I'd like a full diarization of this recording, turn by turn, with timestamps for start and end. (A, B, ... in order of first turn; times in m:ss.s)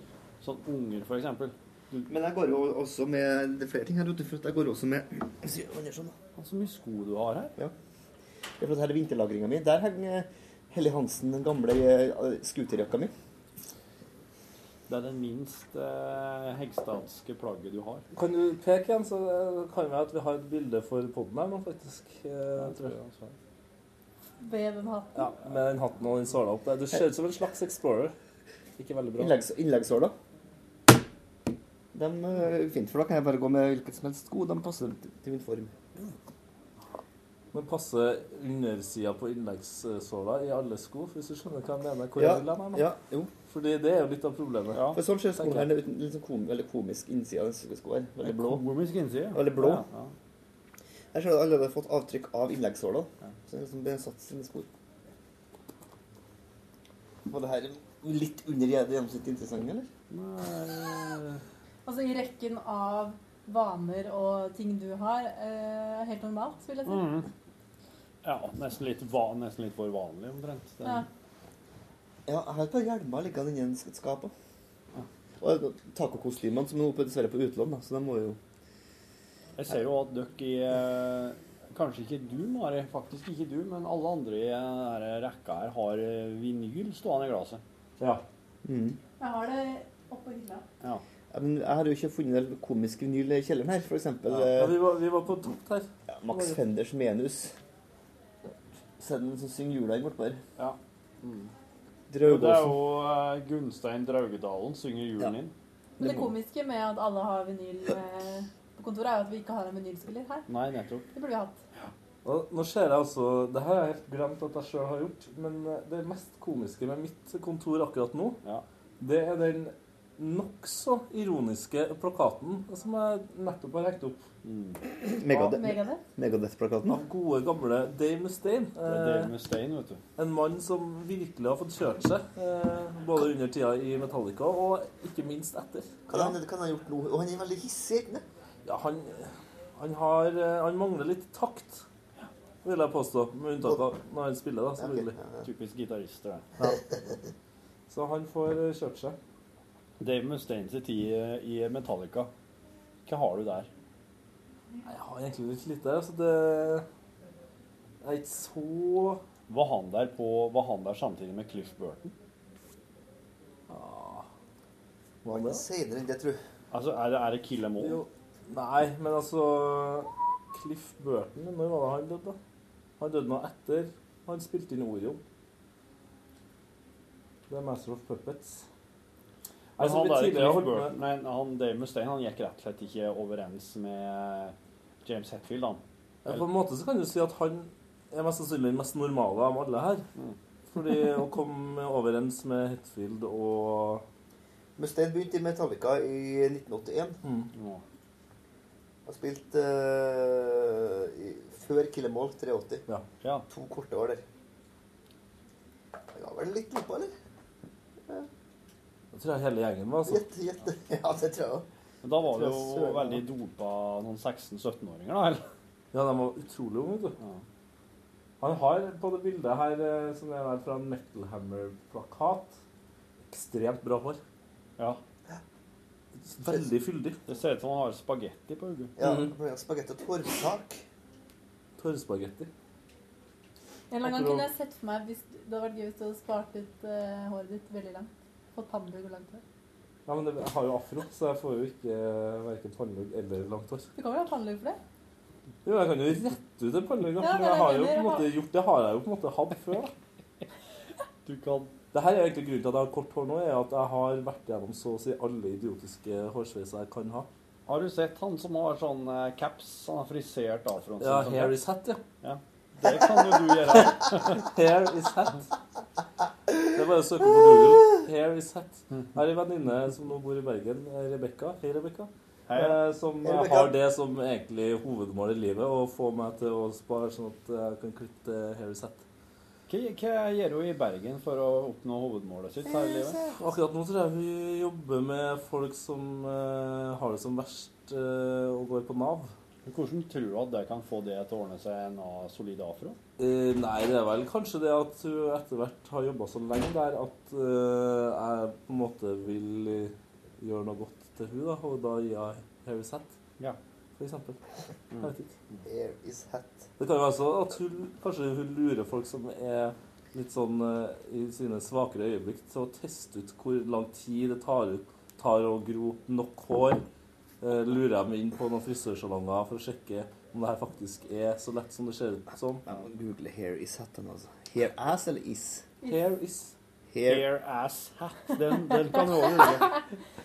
0:00.4-0:02.0 A
0:02.0-0:06.1 B
0:06.4-0:07.5 A
0:08.6-0:13.1 B
0:14.9-0:18.0 A
0:18.1-0:23.0 C
0:22.6-0:23.3 A
0:24.4-0:25.3 D
0:25.2-0:28.1 C
0:28.8-0:29.4 C
0:29.2-0:30.1 B
0:31.9-0:35.7 B
0:37.5-0:42.9 C
0:42.1-0:43.3 B
0:43.5-0:44.8 C
0:44.7-0:45.0 A
0:44.9-0:48.6 B
0:45.4-0:45.7 C
0:48.2-0:50.1 A
0:49.3-0:49.8 B
0:51.1-0:54.7 B
0:57.3-0:59.9 B
1:00.1-1:01.4 A
1:01.8-1:07.2 D
1:06.8-1:07.3 A
1:08.2-1:11.0 A
1:10.8-1:11.1 D
1:12.2-1:14.3 B
1:15.4-1:18.4 B
1:19.6-1:27.6 A
1:28.6-1:29.0 B
1:29.2-1:30.6 D
1:31.3-1:34.8 B
1:34.3-1:36.6 C
1:36.1-1:37.5 B
1:39.0-1:40.4 B
1:40.6-1:41.5 A
1:42.1-1:42.8 B
1:42.2-1:45.5 A
1:46.0-1:50.5 D
1:46.0-1:46.2 B
1:50.5-1:51.1 A
1:51.1-1:51.6 D
1:52.2-1:58.4 C
1:59.0-2:04.2 C
2:04.4-2:04.8 A
2:05.0-2:07.0 B
2:05.3-2:06.0 D
2:06.9-2:09.3 C
2:08.8-2:10.0 A
2:10.2-2:16.3 C
2:16.1-2:18.2 B
2:18.6-2:21.8 C
2:22.6-2:25.1 C
2:24.8-2:25.3 B
2:25.4-2:26.4 A
2:27.9-2:29.2 C
2:30.0-2:32.3 A
2:33.0-2:33.7 A
2:34.8-2:36.8 C
2:38.0-2:39.2 C
2:39.5-2:42.1 A
2:43.7-2:44.2 C
2:45.2-2:45.6 C
2:45.3-2:46.4 B
2:46.7-2:48.0 A
2:47.8-2:52.4 C
2:53.0-2:55.2 C
2:57.5-2:58.6 C
2:59.8-3:06.4 A
2:59.8-3:01.0 C
3:06.2-3:10.0 C
3:10.7-3:14.0 C
3:14.8-3:17.2 B
3:17.5-3:17.8 A
3:19.0-3:22.8 B
3:23.5-3:24.2 B
3:26.1-3:27.1 B
3:29.1-3:30.2 C
3:30.1-3:31.6 B
3:32.0-3:35.4 A
3:32.2-3:33.2 B
3:35.9-3:37.2 C
3:38.4-3:42.5 C
3:43.3-3:44.2 C
3:46.3-3:47.2 C
3:47.3-3:48.9 A
3:49.0-3:50.8 B
3:49.0-3:49.3 C
3:51.8-3:52.5 C
3:53.9-3:59.4 D
3:54.0-3:54.5 C
4:00.0-4:03.9 C
4:04.0-4:04.8 D
4:05.6-4:09.9 C
4:07.2-4:08.3 D
4:11.2-4:11.7 A
4:11.9-4:17.3 C
4:17.7-4:21.6 A
4:21.0-4:22.0 C
4:22.2-4:24.4 A
4:23.7-4:25.4 C
4:26.7-4:39.0 C
4:32.5-4:32.8 A
4:33.2-4:33.7 B
4:39.7-4:43.2 A
4:42.6-4:43.4 B
4:43.3-4:49.3 C
4:49.6-4:53.0 A
4:53.2-5:03.1 C
5:04.0-5:04.4 C
5:04.9-5:05.6 A
5:05.0-5:05.3 C
5:05.6-5:06.6 B
5:06.8-5:16.8 C
5:17.4-5:22.6 C
5:22.7-5:25.6 B
5:25.8-5:26.5 C
5:26.9-5:27.3 B
5:27.0-5:29.8 A
5:28.4-5:29.8 D